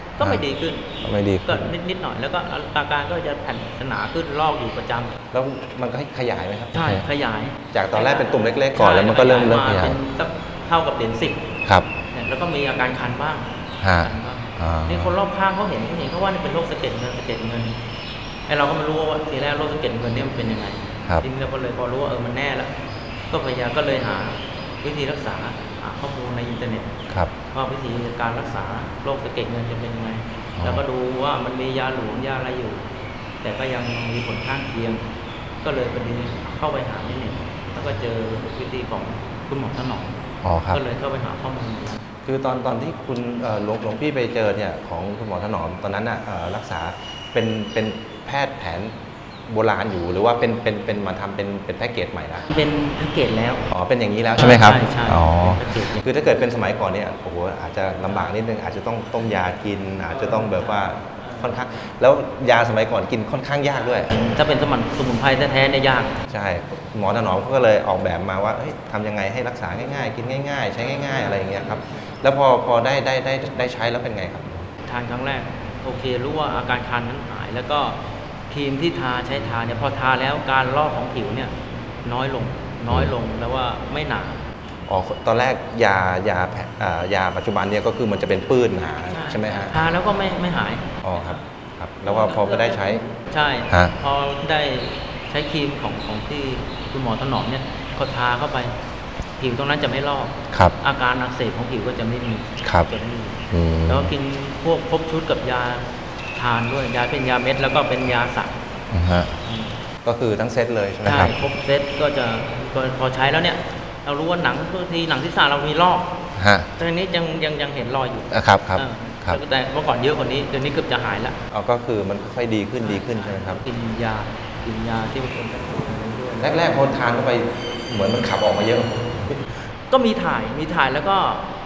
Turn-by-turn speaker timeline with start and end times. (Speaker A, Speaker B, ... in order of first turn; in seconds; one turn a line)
Speaker A: 0.2-5.2
Speaker B: 1.0-1.7
Speaker B: 5.3-7.0
Speaker A: 6.7-11.5
Speaker B: 7.7-9.9
Speaker A: 12.1-17.8
Speaker B: 13.8-15.1
Speaker A: 18.5-22.7
Speaker A: 23.3-26.9
Speaker A: 27.5-32.8
Speaker B: 30.6-30.8
Speaker A: 33.4-35.0
Speaker A: 35.6-40.2
Speaker B: 40.4-40.8
Speaker A: 40.7-42.0
Speaker B: 42.2-48.9
Speaker B: 49.5-52.4
Speaker A: 52.4-53.7
Speaker B: 53.7-64.1
Speaker A: 54.4-56.1
Speaker A: 60.1-61.5
Speaker A: 64.1-66.2
Speaker B: 66.3-74.7
Speaker A: 71.0-71.8
Speaker A: 74.8-84.5
Speaker B: 84.9-89.8
Speaker A: 89.1-91.4
Speaker B: 91.0-93.0
Speaker A: 92.0-98.7
Speaker A: 99.4-108.6
Speaker B: 102.6-102.9
Speaker B: 103.5-104.1
Speaker B: 108.9-109.3
Speaker A: 109.4-109.7
Speaker B: 110.0-111.3
Speaker A: 111.0-116.1
Speaker B: 116.4-116.7
Speaker A: 116.8-121.4
Speaker B: 118.3-119.4
Speaker B: 121.5-123.6
Speaker A: 122.8-126.9
Speaker B: 126.4-129.4
Speaker A: 129.9-131.4